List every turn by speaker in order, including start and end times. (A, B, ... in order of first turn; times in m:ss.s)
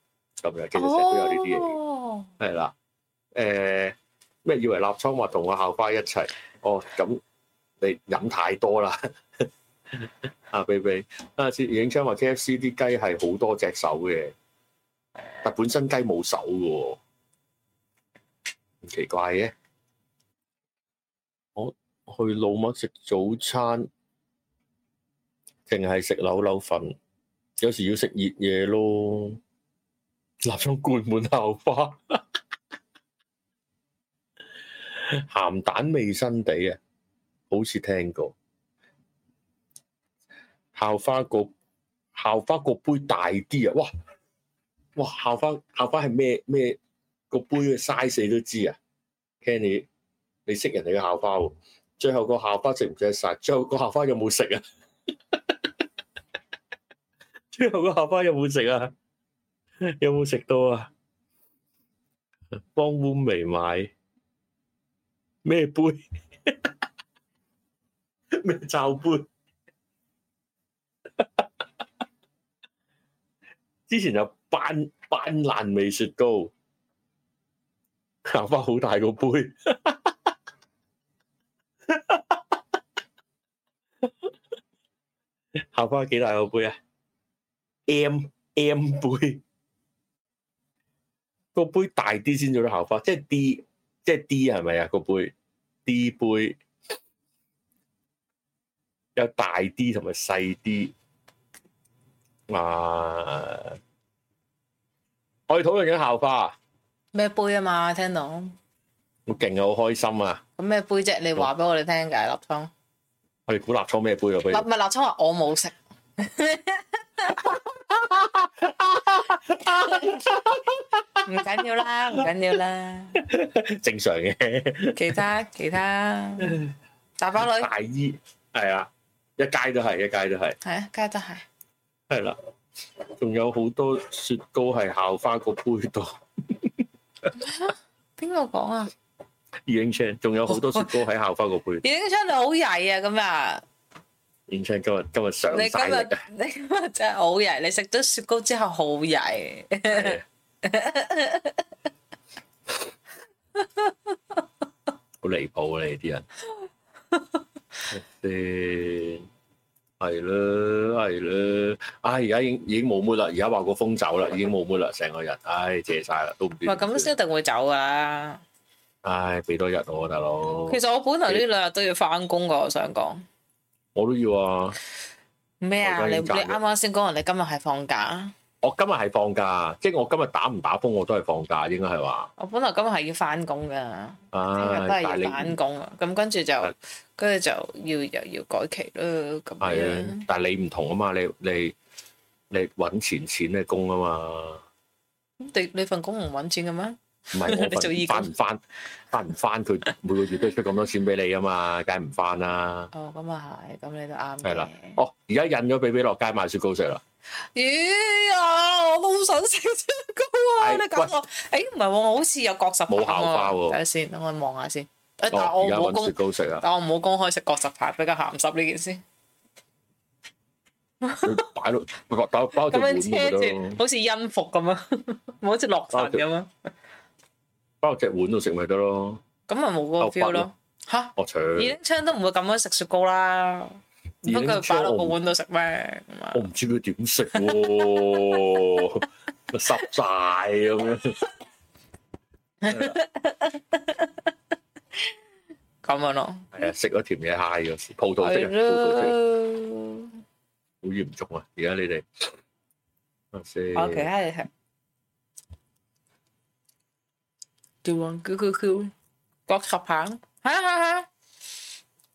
0:00.4-0:01.8 A
0:00.8-0:02.3 B
0:02.4-0:02.7 A
0:03.3-0:07.2 A
0:07.8-0:14.3 A
0:15.4-0:17.0 A
0:18.8-0:19.5 A
0:21.6-0:23.9 A
0:25.7-0:27.0 A
0:27.6-0:29.4 A
0:30.4-0:32.2 A
0:34.9-0:36.8 A
0:37.5-0:38.3 A
0:40.8-0:41.5 A
0:42.2-0:43.9 A
0:45.0-0:46.8 A
0:47.3-0:48.8 A
0:49.4-0:49.9 A
0:50.5-0:54.6 A
0:55.3-0:55.6 A
0:57.5-0:58.9 A
0:59.8-1:00.9 A
1:02.6-1:03.9 A
1:05.4-1:06.7 A
1:08.3-1:09.3 A
1:11.2-1:11.5 A
1:13.9-1:16.5 A
1:18.3-1:20.3 A
1:21.9-1:22.6 A
1:24.0-1:24.3 A
1:25.7-1:26.8 A
1:27.9-1:29.4 A
1:31.6-1:35.3 A
1:35.9-1:36.6 A
1:39.2-1:40.9 A
1:42.5-1:43.8 A
1:45.5-1:46.6 A
1:47.1-1:48.6 B
1:49.3-1:50.4 A
1:50.6-1:52.7 B
1:53.5-1:54.6 A
1:54.5-1:57.6 B
1:57.9-2:01.2 A
1:59.6-2:00.4 B
2:01.2-2:03.2 B
2:03.2-2:05.2 A
2:05.0-2:06.6 B
2:06.4-2:06.7 A
2:07.2-2:07.7 B
2:07.4-2:10.6 A
2:10.6-2:11.4 B
2:12.1-2:12.4 A
2:13.2-2:16.8 A
2:17.4-2:18.9 B
2:19.7-2:21.8 A
2:20.5-2:20.9 B
2:21.8-2:23.6 B
2:24.5-2:26.2 A
2:25.5-2:31.7 B
2:29.9-2:30.2 A
2:33.6-2:34.2 B
2:35.2-2:36.3 A
2:37.1-2:37.4 B
2:37.9-2:39.3 A
2:40.0-2:47.1 A
2:46.6-2:48.4 B
2:49.0-2:51.4 A
2:50.7-2:53.2 B
2:54.0-2:54.8 A
2:55.6-2:58.3 B
2:55.8-2:56.6 A
2:58.6-3:02.3 A
3:02.4-3:10.2 B
3:04.3-3:05.6 A
3:09.6-3:11.8 A
3:12.5-3:14.6 A
3:15.4-3:18.3 B
3:17.3-3:18.6 A
3:19.1-3:22.9 A
3:22.9-3:25.0 B
3:24.4-3:27.0 A
3:27.6-3:39.0 B
3:30.6-3:31.1 A
3:32.9-3:33.8 A
3:35.3-3:36.6 A
3:41.0-3:41.3 B
3:41.2-3:43.8 A
3:42.7-3:46.5 B
3:45.9-3:46.2 A
3:47.8-3:49.2 A
3:49.5-3:56.5 B
3:50.0-3:50.5 A
3:51.2-3:51.8 A
3:54.3-3:55.2 A
3:56.3-4:01.2 A
3:57.4-3:58.6 B
4:02.6-4:04.3 B
4:02.7-4:03.0 A
4:05.8-4:06.6 B
4:06.5-4:09.2 A
4:08.2-4:10.1 B
4:10.8-4:12.0 A
4:13.3-4:14.1 A
4:13.7-4:14.5 B
4:17.8-4:18.9 B
4:19.5-4:21.1 B